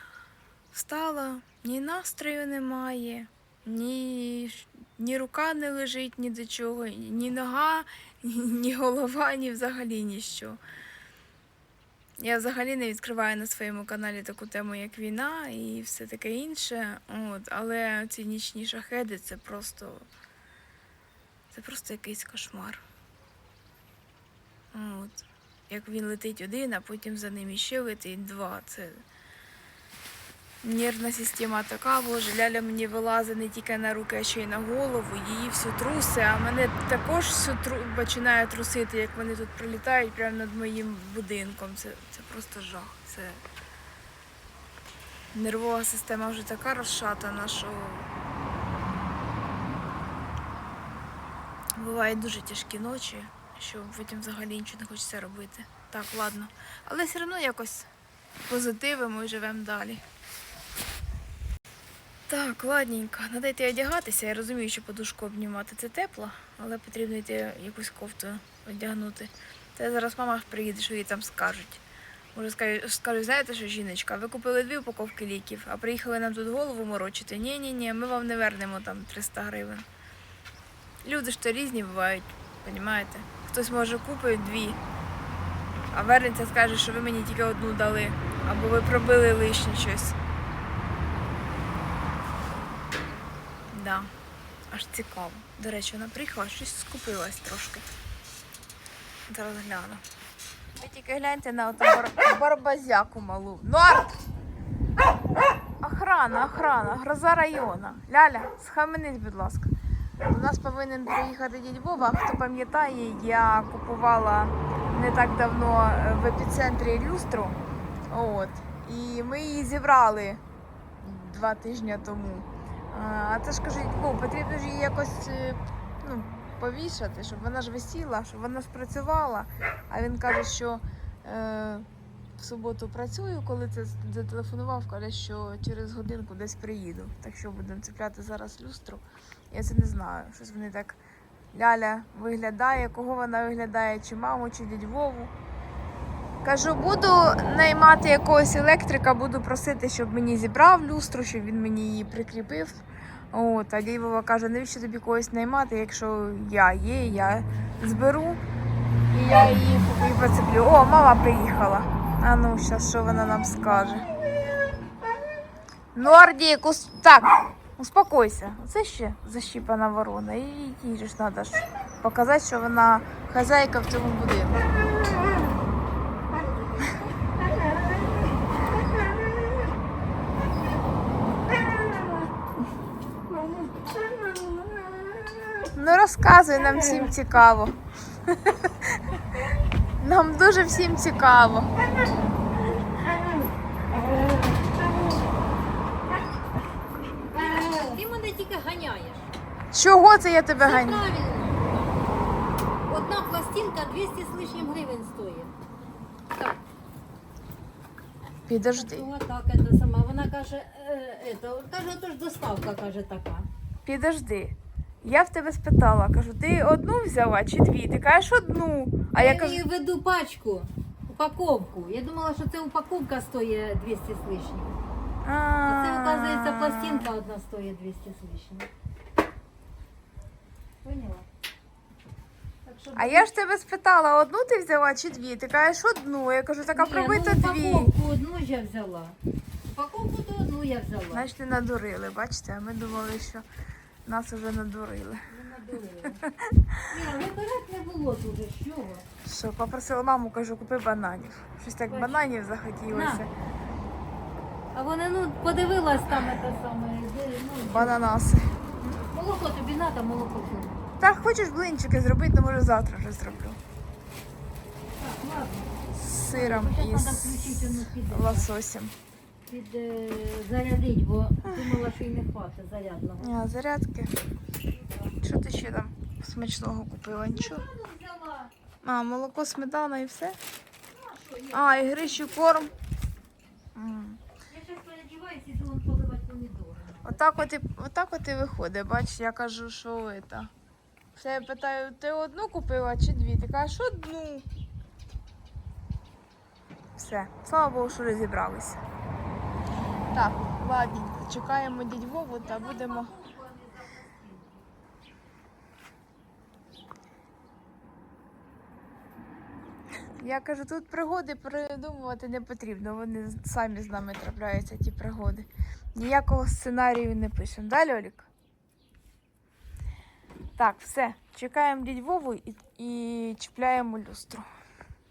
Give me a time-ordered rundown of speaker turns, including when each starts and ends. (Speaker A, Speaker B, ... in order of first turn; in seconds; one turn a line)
Speaker A: 0.7-10.6
Speaker A: 12.2-20.1
Speaker A: 21.5-22.8
Speaker A: 24.7-29.0
Speaker A: 30.6-43.4
Speaker A: 45.3-48.1
Speaker A: 51.8-57.9
Speaker A: 58.5-60.0
Speaker A: 62.3-71.8
Speaker A: 72.3-79.8
Speaker A: 81.0-84.8
Speaker A: 85.9-90.2
Speaker A: 93.7-94.1
Speaker A: 94.7-97.9
Speaker A: 99.3-100.0
Speaker A: 100.8-104.2
Speaker A: 105.8-109.7
Speaker A: 110.2-117.6
Speaker A: 118.1-120.4
Speaker A: 121.0-131.9
Speaker A: 132.4-141.0
Speaker A: 141.5-145.3
Speaker A: 146.4-158.4
Speaker A: 159.1-164.1
Speaker A: 165.9-174.6
Speaker A: 185.7-189.1
Speaker A: 190.0-191.7
Speaker B: 197.3-199.3
Speaker A: 199.7-201.1
Speaker B: 200.6-202.0
Speaker B: 202.9-205.5
Speaker B: 206.3-206.6
Speaker A: 208.5-209.1
Speaker B: 208.7-213.5
Speaker A: 213.8-219.6
Speaker B: 219.1-224.8
Speaker A: 225.2-227.1
Speaker B: 225.6-228.7
Speaker B: 230.8-231.2
Speaker B: 232.6-233.3
Speaker A: 232.9-237.9
Speaker B: 236.7-241.3
Speaker A: 241.1-243.4
Speaker A: 244.1-245.2
Speaker B: 245.3-246.2
Speaker A: 246.2-246.9
Speaker B: 246.9-249.1
Speaker A: 249.2-253.3
Speaker B: 251.9-252.3
Speaker B: 252.9-253.2
Speaker B: 254.7-258.1
Speaker A: 257.7-259.0
Speaker B: 259.1-260.8
Speaker A: 261.0-263.6
Speaker B: 265.0-265.7
Speaker A: 265.9-268.9
Speaker B: 266.3-268.5
Speaker B: 269.5-273.4
Speaker A: 273.2-274.1
Speaker B: 274.7-275.1
Speaker A: 275.2-277.6
Speaker B: 277.3-278.5
Speaker A: 278.8-280.4
Speaker B: 280.9-282.8
Speaker A: 281.5-282.7
Speaker A: 283.8-284.2
Speaker B: 284.5-287.2
Speaker A: 287.0-290.5
Speaker A: 291.1-294.5
Speaker A: 297.0-298.8
Speaker A: 300.1-303.1
Speaker B: 302.4-304.7
Speaker A: 310.2-318.3
Speaker A: 320.6-324.4